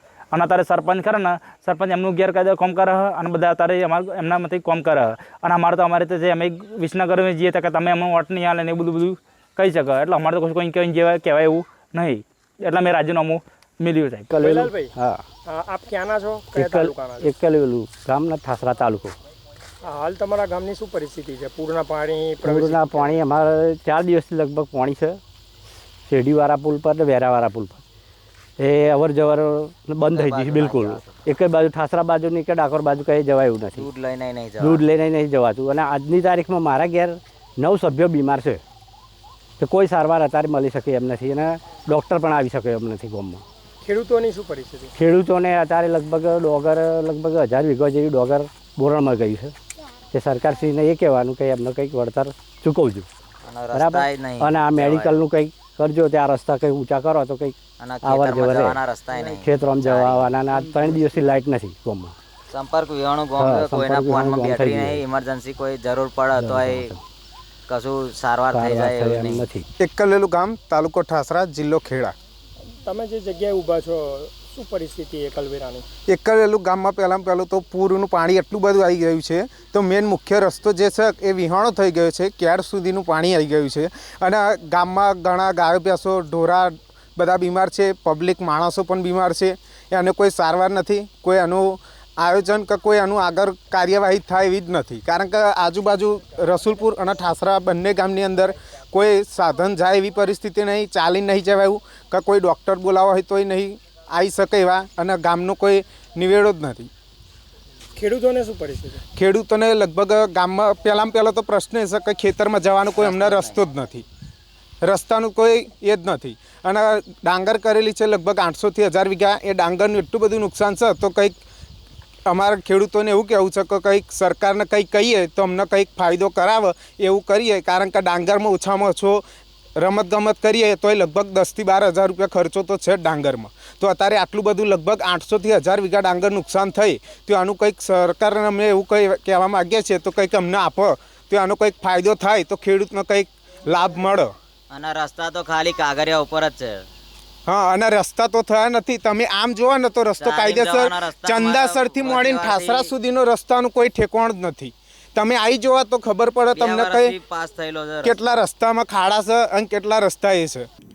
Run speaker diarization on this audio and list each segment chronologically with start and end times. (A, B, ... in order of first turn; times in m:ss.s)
0:00.3-0:14.4 A
0:14.3-0:15.2 B
0:14.4-0:17.3 C
0:16.5-0:19.2 B
0:19.8-0:23.2 C
0:22.4-0:25.2 B
0:26.1-0:27.8 B
0:28.6-0:33.9 B
0:30.1-0:31.2 D
0:33.8-0:34.8 D
0:34.6-0:38.6 B
0:39.6-0:43.4 B
0:43.8-0:44.9 C
0:44.9-0:49.5 B
0:50.1-0:53.1 B
0:53.4-0:55.2 D
0:53.7-1:02.2 B
0:57.8-1:00.2 D
1:02.5-1:06.9 D
1:03.4-1:05.0 B
1:06.3-1:07.0 B
1:07.7-1:09.4 D
1:08.5-1:09.7 B
1:09.8-1:12.1 E
1:12.8-1:15.9 C
1:16.0-1:46.9 E
1:48.0-1:49.0 C
1:49.1-1:54.0 E
1:52.9-1:53.6 D
1:54.8-2:01.3 E
2:02.2-2:09.2 E
2:09.8-2:24.3 E
2:24.7-2:26.8 D
2:27.5-2:37.2 E
2:30.2-2:32.9 D
2:36.5-2:38.2 D
2:38.0-2:40.7 E